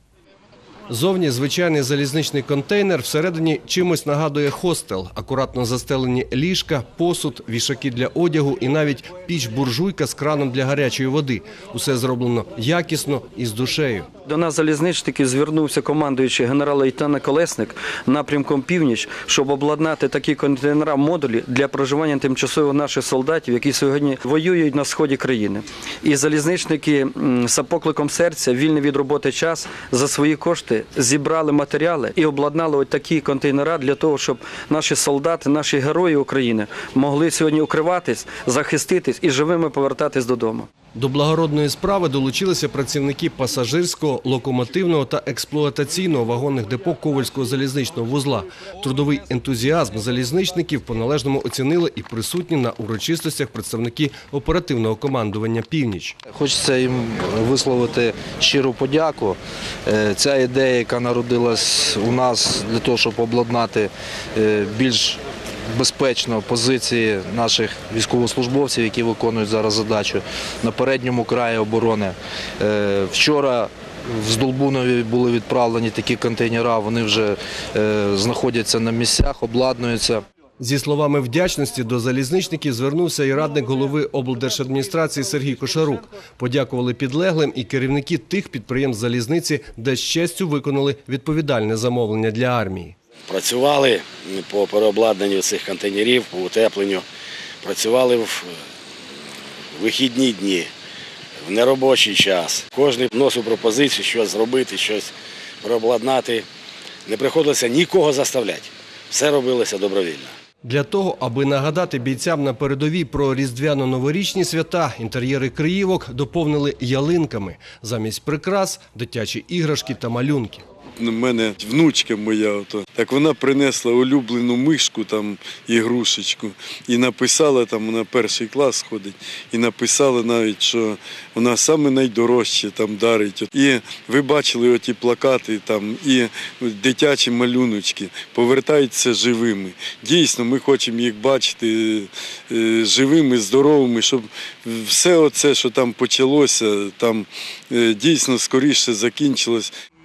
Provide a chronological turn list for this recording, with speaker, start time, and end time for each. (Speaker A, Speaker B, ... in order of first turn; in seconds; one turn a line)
Speaker A: 0.9-14.1
Speaker B: 14.2-40.7
Speaker A: 40.9-56.2
Speaker C: 56.3-65.2
Speaker C: 65.7-80.2
Speaker A: 80.6-92.9
Speaker D: 93.3-97.0
Speaker D: 97.6-98.6
Speaker D: 99.8-100.7
Speaker D: 101.4-106.5
Speaker D: 107.0-110.3
Speaker A: 110.6-120.6
Speaker E: 121.0-149.7